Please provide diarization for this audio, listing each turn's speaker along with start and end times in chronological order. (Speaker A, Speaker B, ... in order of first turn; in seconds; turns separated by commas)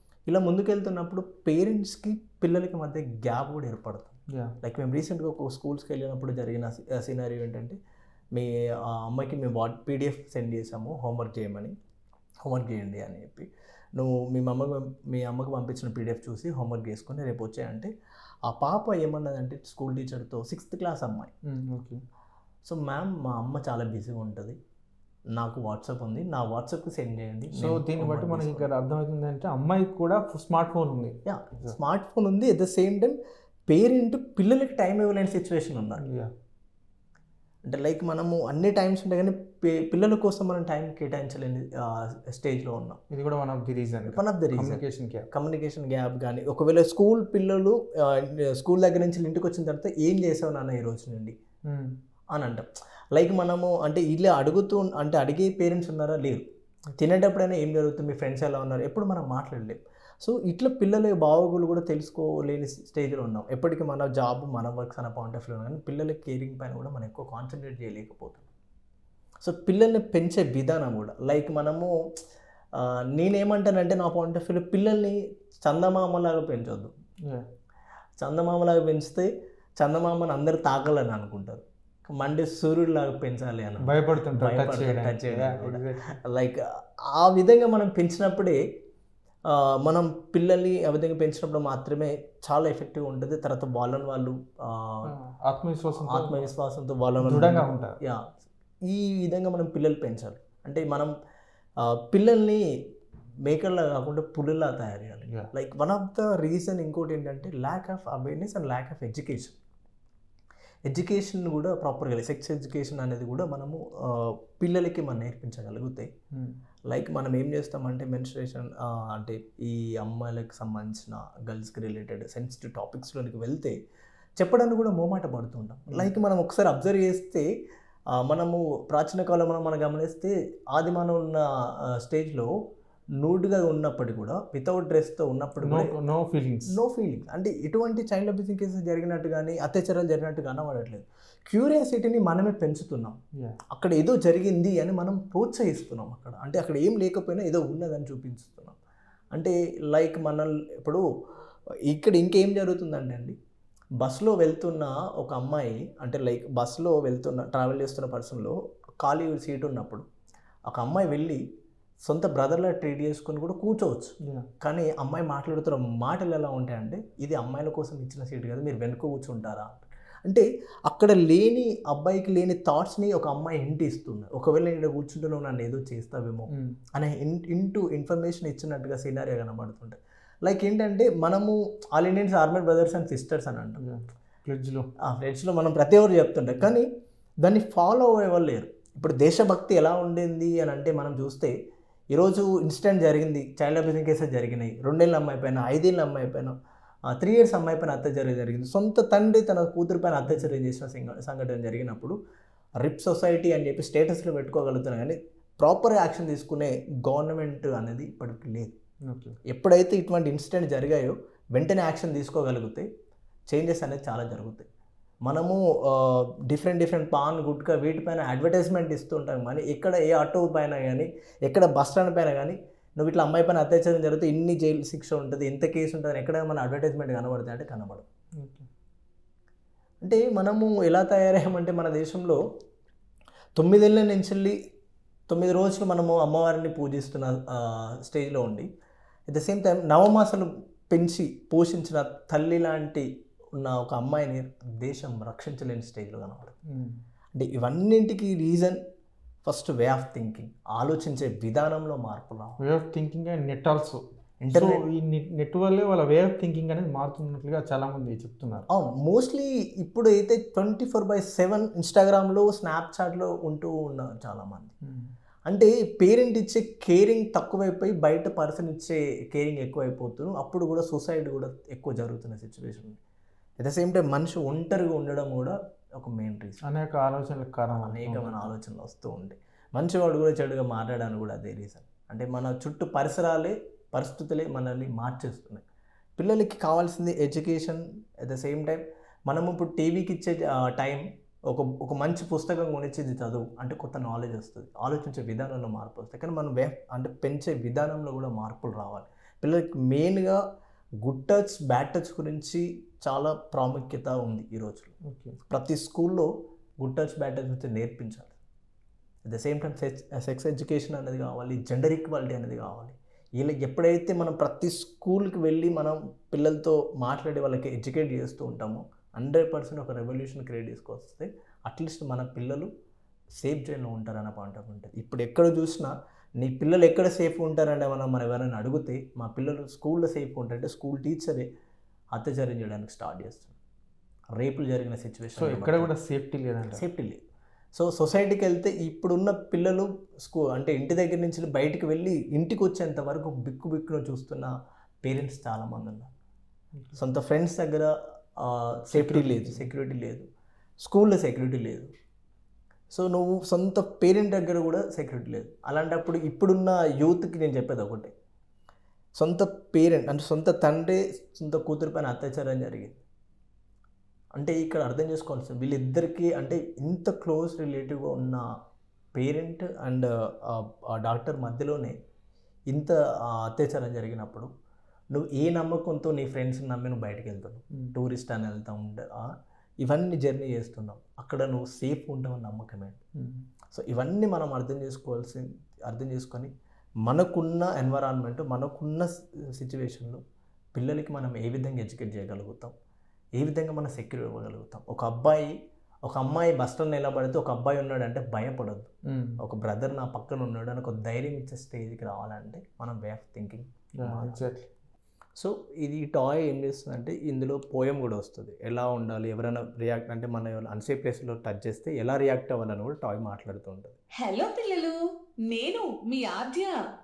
Speaker A: 0.3-7.8, Speaker B: 4.3-4.6, Speaker A: 8.3-11.8, Speaker A: 12.4-17.9, Speaker A: 18.4-21.3, Speaker B: 21.4-22.0, Speaker A: 22.6-24.6, Speaker A: 25.3-28.7, Speaker B: 27.5-31.8, Speaker A: 31.2-33.2, Speaker A: 33.7-36.0, Speaker B: 36.0-36.3, Speaker A: 37.7-43.0, Speaker B: 43.1-45.3, Speaker A: 44.1-51.4, Speaker B: 51.7-52.0, Speaker A: 52.3-56.5, Speaker A: 57.0-68.5, Speaker A: 69.4-71.9, Speaker A: 72.7-76.9, Speaker A: 78.2-88.6, Speaker B: 83.8-86.2, Speaker A: 89.5-95.1, Speaker B: 95.0-96.5, Speaker A: 96.0-101.1, Speaker B: 97.2-98.0, Speaker A: 101.8-102.6, Speaker A: 103.4-109.5, Speaker B: 105.3-105.5, Speaker A: 110.9-116.1, Speaker B: 116.3-116.6, Speaker A: 116.9-123.8, Speaker A: 124.4-127.5, Speaker A: 128.1-132.5, Speaker A: 133.2-135.9, Speaker B: 135.6-136.8, Speaker A: 136.7-143.2, Speaker A: 143.7-148.8, Speaker A: 149.3-151.0, Speaker A: 151.9-153.4, Speaker A: 154.0-160.1, Speaker A: 160.7-161.4, Speaker A: 162.0-183.8, Speaker B: 176.5-176.8, Speaker B: 183.8-184.9, Speaker A: 185.0-186.9, Speaker A: 187.4-191.5, Speaker A: 192.1-196.6, Speaker A: 197.1-202.2, Speaker A: 202.8-208.8, Speaker B: 209.1-209.4, Speaker A: 209.5-212.9, Speaker A: 213.5-214.7, Speaker A: 215.2-228.1, Speaker B: 228.4-228.7, Speaker A: 230.0-232.4, Speaker A: 233.6-234.6, Speaker A: 235.3-238.7, Speaker A: 239.3-246.6, Speaker B: 246.7-247.0, Speaker A: 247.3-248.8, Speaker A: 249.4-252.6, Speaker B: 252.6-258.7, Speaker A: 254.4-254.8, Speaker A: 258.7-264.7, Speaker B: 264.8-265.1, Speaker A: 265.5-273.0, Speaker A: 273.6-276.6, Speaker B: 276.6-278.5, Speaker A: 277.8-285.6, Speaker A: 286.2-300.4, Speaker A: 301.0-304.9, Speaker B: 305.0-305.4, Speaker A: 305.5-306.3, Speaker A: 306.8-308.3, Speaker A: 309.2-322.7, Speaker A: 323.4-331.5, Speaker A: 332.1-333.6, Speaker A: 334.4-335.9, Speaker B: 335.4-336.8, Speaker A: 336.7-337.2, Speaker A: 337.7-346.1, Speaker A: 346.9-350.3, Speaker B: 348.9-349.7, Speaker A: 350.8-351.9, Speaker A: 352.9-358.1, Speaker A: 359.2-363.0, Speaker A: 364.4-368.5, Speaker A: 369.1-372.0, Speaker A: 372.7-374.5, Speaker A: 375.1-383.0, Speaker B: 383.2-383.4, Speaker A: 383.7-386.5, Speaker A: 387.0-390.2, Speaker A: 390.7-392.7, Speaker A: 393.4-398.9, Speaker B: 399.1-399.4, Speaker A: 399.4-404.5, Speaker B: 404.0-404.7, Speaker A: 405.4-414.0, Speaker C: 414.2-415.0, Speaker C: 415.5-416.8